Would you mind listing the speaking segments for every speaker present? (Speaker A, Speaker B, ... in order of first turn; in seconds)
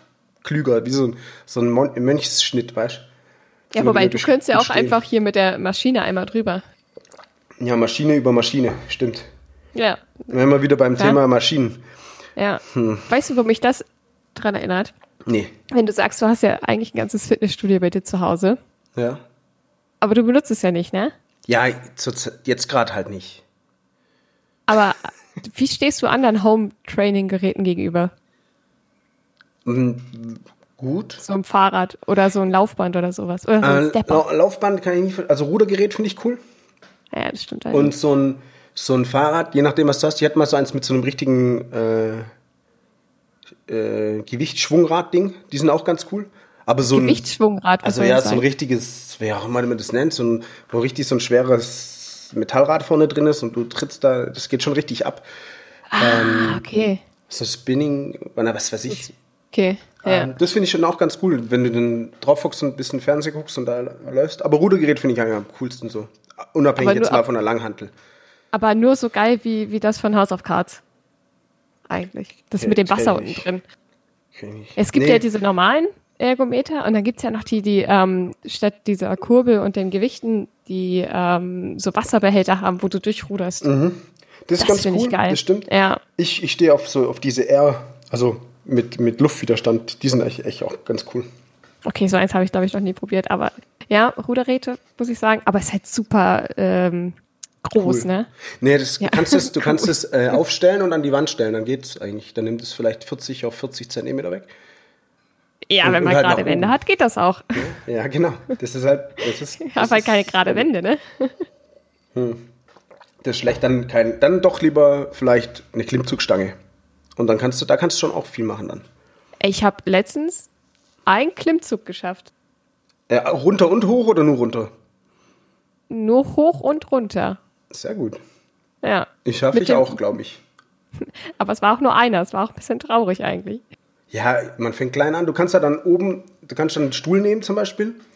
Speaker A: 0.4-3.1, 3.8-5.0, 7.6-9.3, 10.3-11.8, 12.7-13.1, 15.2-15.5, 18.9-19.2, 21.5-23.4, 29.6-31.2, 33.6-36.4, 37.7-42.3, 43.7-47.2, 47.8-55.2, 56.0-56.6, 57.3-59.1, 60.0-67.9, 72.5-73.5, 74.3-75.2, 83.6-91.2, 97.8-98.1, 98.6-104.5, 105.8-106.7, 107.5-110.7, 112.1-112.5, 113.2-116.5, 117.2-118.8, 123.1-124.7, 127.7-128.2, 129.2-130.4, 134.1-138.0
Speaker B: 3.7-6.6, 9.7-10.3, 12.3-14.9, 15.7-18.6, 20.0-21.1, 24.7-28.1, 31.2-34.2, 37.1-37.9, 46.9-48.4, 55.9-57.0, 59.5-60.3, 66.8-67.2, 68.5-70.8, 71.9-73.6, 74.8-83.7, 84.6-86.0, 91.8-98.3, 99.0-99.9, 105.7-107.6, 109.6-111.3, 119.4-120.5, 121.0-122.3, 125.9-127.4, 128.8-130.0, 131.0-133.6